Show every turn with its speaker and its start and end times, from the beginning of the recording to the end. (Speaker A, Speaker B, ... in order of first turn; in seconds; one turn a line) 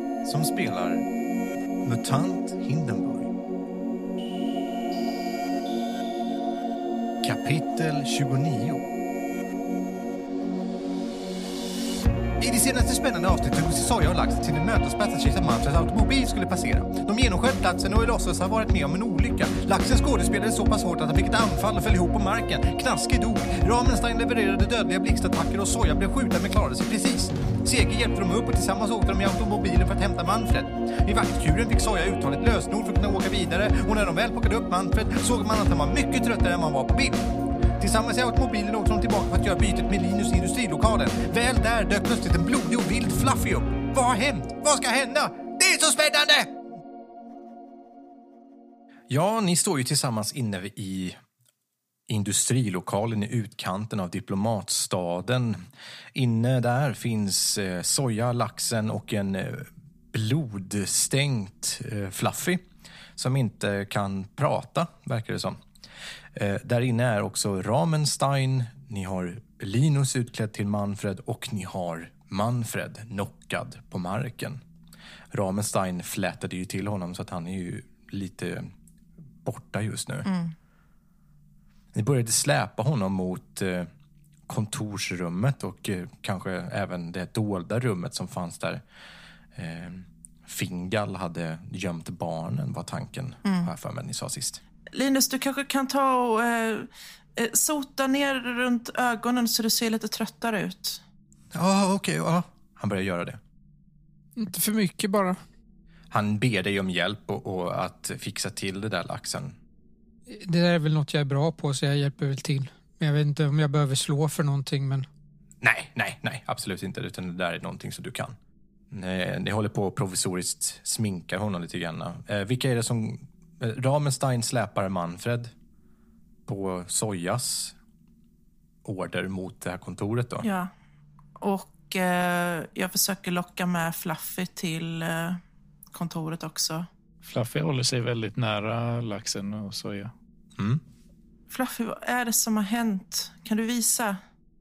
Speaker A: 0.2-1.1
Speaker A: 1.8-3.3
Speaker A: 7.2-8.9
Speaker A: 12.4-37.3
Speaker A: 37.8-46.5
Speaker A: 49.1-51.2
Speaker A: 52.1-55.6
Speaker A: 56.1-62.6
Speaker A: 63.2-65.6
Speaker A: 66.3-74.6
Speaker A: 75.3-78.7
Speaker A: 79.5-80.3
Speaker B: 80.3-80.5
Speaker A: 81.9-83.9
Speaker A: 84.5-88.8
Speaker A: 89.5-94.6
Speaker B: 94.9-101.0
Speaker A: 101.5-103.4
Speaker C: 104.4-105.4
Speaker A: 106.1-109.6
Speaker C: 110.3-115.1
Speaker A: 115.6-118.4
Speaker A: 118.9-125.5
Speaker A: 126.5-127.8
Speaker A: 128.8-130.5
Speaker B: 130.4-130.7
Speaker B: 131.4-135.4
Speaker B: 135.9-136.9
Speaker D: 137.2-140.1
Speaker A: 140.6-140.8
Speaker B: 141.5-144.2